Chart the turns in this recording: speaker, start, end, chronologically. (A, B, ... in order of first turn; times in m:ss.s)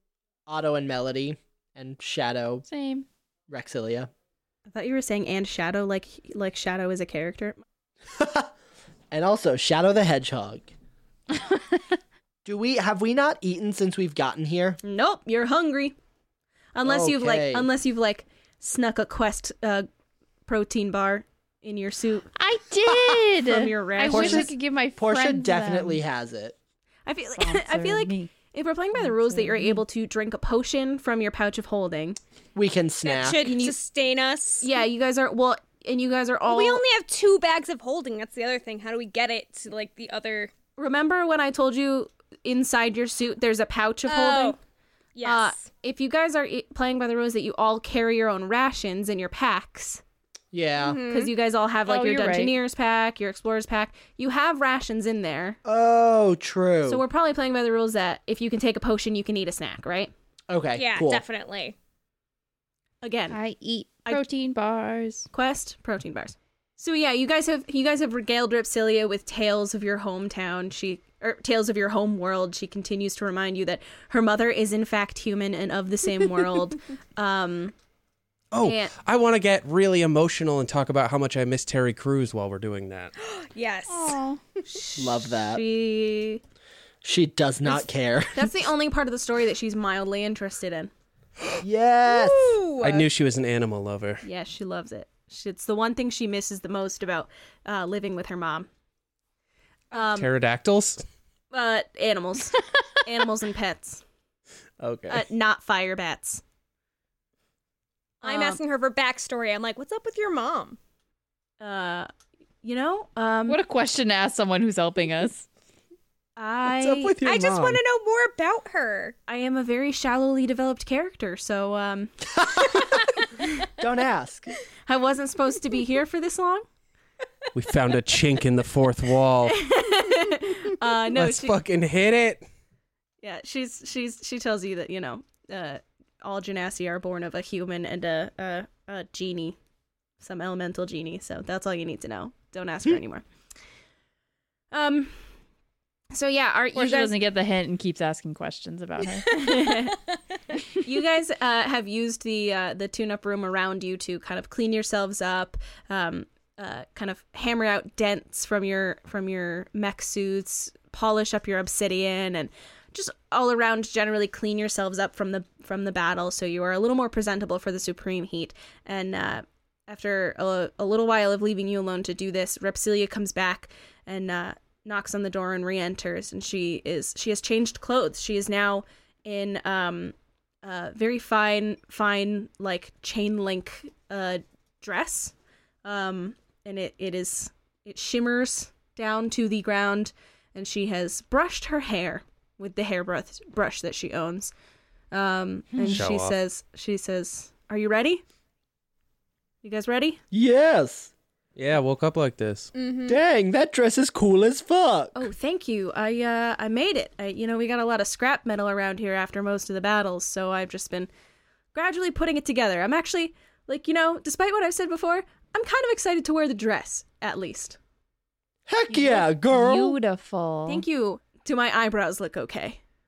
0:00.5-0:02.6 A
0:02.6-0:03.1 B
0:03.5-0:04.1 A
0:04.7-0:07.6 C
0:08.1-0:08.5 A
0:09.1-0:10.7 A
0:12.4-0:14.8 A
0:14.8-0:15.9 C
0:16.7-0:19.9 C
0:16.8-0:17.7 A
0:20.5-0:22.3 C
0:22.4-0:26.0 B
0:22.9-0:23.4 A
0:23.4-0:24.5 C
0:24.1-0:26.6 A
0:27.1-0:32.2 C
0:27.4-0:28.3 B
0:29.0-0:29.8 B
0:32.6-0:33.4 A
0:33.0-0:34.7 D
0:33.3-0:33.8 C
0:34.6-0:36.8 C
0:36.5-0:40.5 D
0:40.8-0:44.6 C
0:44.1-0:44.6 D
0:45.2-0:45.7 D
0:45.2-0:50.0 C
0:50.5-0:51.0 A
0:50.8-0:51.3 D
0:51.0-0:55.6 C
0:51.9-0:52.6 B
0:55.6-0:57.0 A
0:56.9-1:00.1 C
1:00.5-1:01.2 A
1:00.8-1:01.8 D
1:03.0-1:03.4 C
1:03.3-1:05.3 B
1:05.3-1:17.7 C
1:18.5-1:23.1 E
1:18.6-1:18.9 C
1:23.2-1:24.2 D
1:23.9-1:24.4 B
1:24.7-1:26.4 C
1:25.0-1:25.6 A
1:27.0-1:28.5 A
1:27.7-1:30.9 C
1:31.6-1:32.6 A
1:32.1-1:33.1 D
1:32.8-1:34.2 E
1:34.2-1:38.7 C
1:39.9-1:40.3 C
1:40.0-1:41.0 E
1:41.5-1:44.0 C
1:44.8-1:45.2 E
1:45.1-1:46.4 C
1:48.2-1:50.8 D
1:48.2-1:48.6 C
1:51.6-1:52.1 C
1:52.6-1:53.6 C
1:53.5-1:55.4 B
1:56.4-1:57.3 C
1:56.7-1:57.8 E
1:57.2-1:59.2 D
1:59.3-2:02.9 C
2:03.8-2:04.5 A
2:04.9-2:06.6 C
2:07.6-2:09.7 E
2:09.4-2:11.6 C
2:11.1-2:12.4 E
2:13.2-2:19.6 C
2:20.2-2:23.2 C
2:24.7-2:25.2 C
2:26.1-2:27.2 C
2:26.8-2:29.7 B
2:29.2-2:30.0 C
2:30.8-3:14.5 C
3:15.1-3:18.2 C
3:15.9-3:16.3 E
3:19.6-3:20.2 C
3:20.3-3:21.1 A
3:21.6-3:22.7 E
3:22.8-3:23.2 D
3:23.1-3:25.2 A
3:25.2-3:31.1 C
3:31.7-3:37.8 C
3:38.7-3:40.0 A
3:38.9-3:40.8 B
3:40.7-3:42.8 C